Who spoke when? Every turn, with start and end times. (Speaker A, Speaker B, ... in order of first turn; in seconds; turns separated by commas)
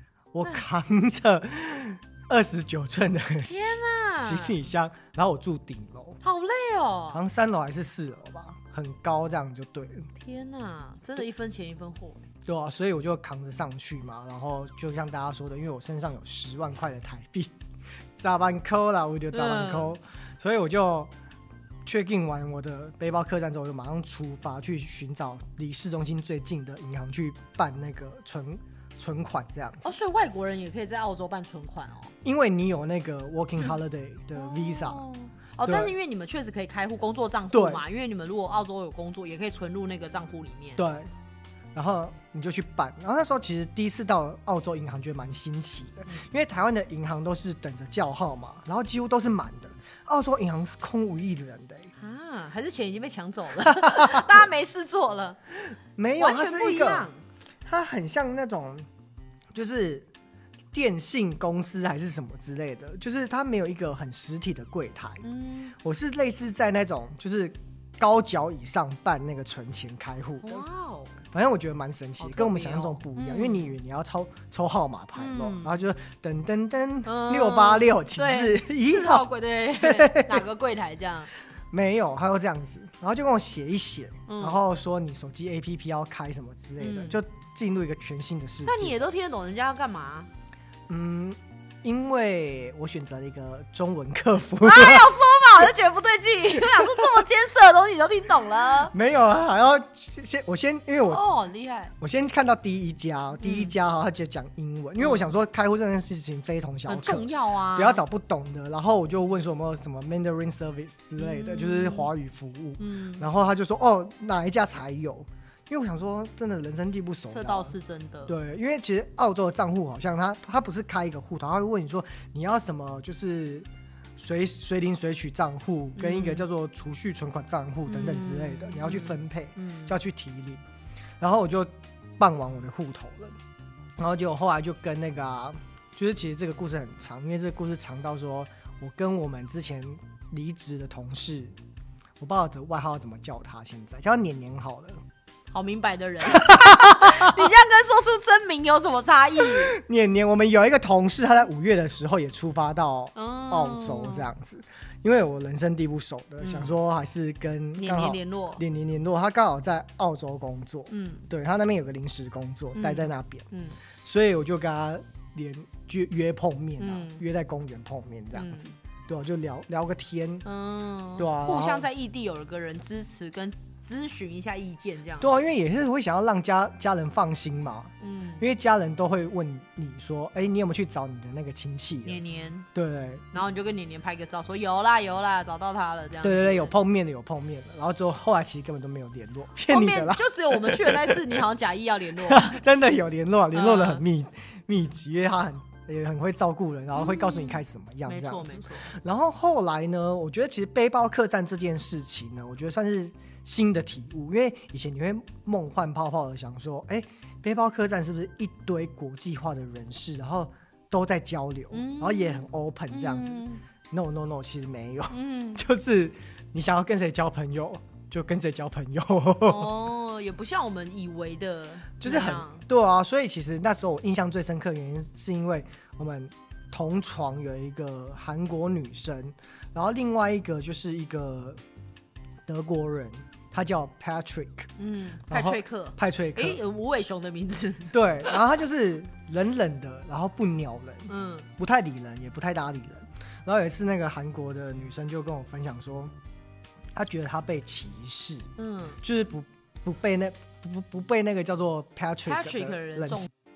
Speaker A: 0.3-6.2, Speaker B: 3.5-4.6, Speaker B: 6.2-7.2, Speaker A: 7.1-10.1, Speaker B: 10.2-12.2, Speaker A: 12.5-17.5, Speaker A: 18.2-21.1, Speaker B: 19.3-19.9, Speaker A: 21.9-29.9, Speaker B: 29.8-32.1, Speaker A: 32.2-35.0, Speaker B: 34.4-40.8, Speaker A: 35.6-35.9, Speaker A: 37.5-37.8, Speaker A: 40.8-41.1, Speaker A: 41.8-51.9, Speaker B: 52.0-55.4, Speaker A: 53.7-54.4, Speaker A: 56.0-57.1, Speaker B: 56.2-57.2, Speaker A: 57.7-58.9, Speaker A: 59.5-60.1, Speaker A: 60.7-65.2, Speaker B: 65.2-65.8, Speaker A: 65.8-70.7, Speaker B: 70.4-71.1, Speaker A: 71.3-79.3, Speaker B: 72.2-73.8, Speaker B: 75.2-75.8, Speaker B: 77.0-81.3, Speaker A: 79.8-80.5, Speaker A: 81.7-89.0, Speaker B: 84.3-84.6, Speaker B: 86.8-87.2, Speaker B: 88.7-90.3, Speaker A: 90.9-95.1, Speaker B: 94.6-98.9, Speaker A: 98.9-101.2, Speaker B: 101.1-101.9, Speaker A: 102.0-117.7, Speaker B: 103.4-103.7, Speaker B: 105.0-105.3, Speaker B: 106.9-108.0, Speaker B: 111.2-112.1, Speaker B: 112.8-113.3, Speaker B: 117.3-118.3, Speaker A: 118.3-123.7, Speaker A: 124.2-130.6, Speaker B: 126.0-126.5, Speaker B: 127.9-130.0, Speaker A: 131.2-133.3, Speaker A: 134.0-141.6, Speaker A: 142.2-145.0, Speaker B: 145.5-149.8, Speaker A: 146.3-147.3, Speaker A: 149.6-163.4, Speaker B: 153.2-154.3, Speaker B: 156.4-156.8, Speaker B: 157.8-158.6, Speaker B: 160.9-161.3, Speaker B: 162.8-163.8, Speaker A: 164.0-170.4, Speaker B: 166.8-167.2, Speaker B: 168.3-168.7, Speaker B: 170.4-175.3, Speaker A: 171.2-171.9, Speaker A: 175.2-182.2, Speaker B: 178.0-178.4, Speaker B: 182.1-182.7, Speaker A: 182.8-183.3, Speaker B: 183.3-186.8, Speaker A: 186.2-191.4, Speaker B: 189.7-192.6, Speaker A: 192.2-219.7, Speaker B: 193.5-194.0, Speaker B: 196.9-198.9, Speaker B: 211.7-213.6, Speaker B: 215.1-215.6, Speaker B: 219.4-222.6, Speaker A: 222.0-231.6, Speaker A: 232.5-234.7, Speaker B: 234.8-238.4, Speaker A: 235.3-236.6, Speaker A: 237.9-246.1, Speaker B: 241.1-241.5, Speaker A: 246.9-253.3, Speaker B: 248.6-249.0, Speaker B: 252.3-253.3